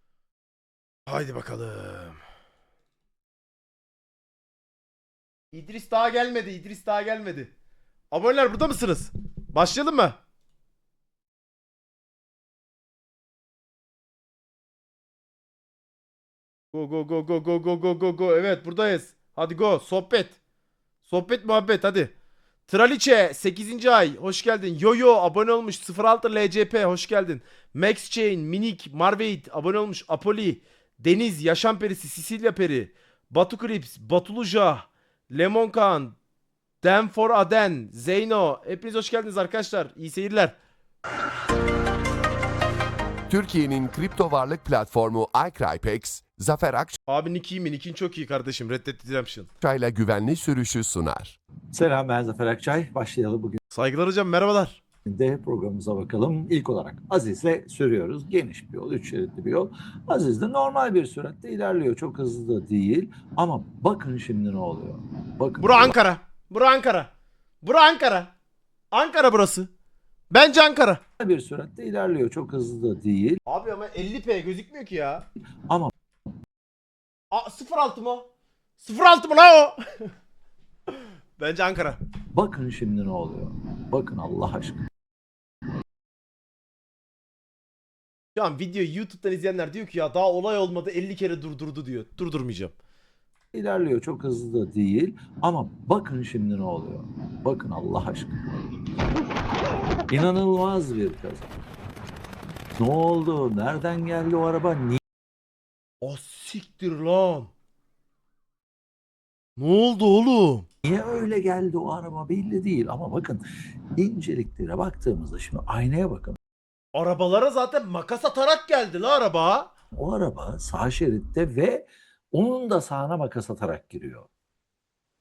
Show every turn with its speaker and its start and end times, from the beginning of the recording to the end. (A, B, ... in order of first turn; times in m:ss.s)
0:01.1-0:02.2 A
0:05.5-0:07.5 A
0:08.1-0:10.2 A
0:16.7-0:20.4 A
0:21.0-0:22.1 A
0:22.7-0:36.2 A
0:36.8-0:40.6 A
0:43.3-0:47.0 B
0:47.1-0:49.5 A
0:49.6-0:51.4 B
0:51.7-0:53.6 C
0:53.7-0:54.8 A
0:55.0-1:06.0 C
1:05.6-1:07.1 A
1:07.6-1:08.3 A
1:08.9-1:09.7 A
1:10.3-1:11.0 A
1:11.2-1:13.4 C
1:13.5-1:15.3 A
1:15.7-1:15.9 C
1:17.3-1:20.1 A
1:20.9-1:22.0 A
1:22.3-1:24.8 C
1:28.4-1:32.7 A
1:33.5-1:38.6 C
1:40.1-1:41.5 C
1:42.8-1:45.0 C
1:46.0-1:47.5 A
1:49.6-1:50.7 A
1:50.8-1:56.4 C
1:56.9-1:59.7 A
1:59.9-2:04.3 C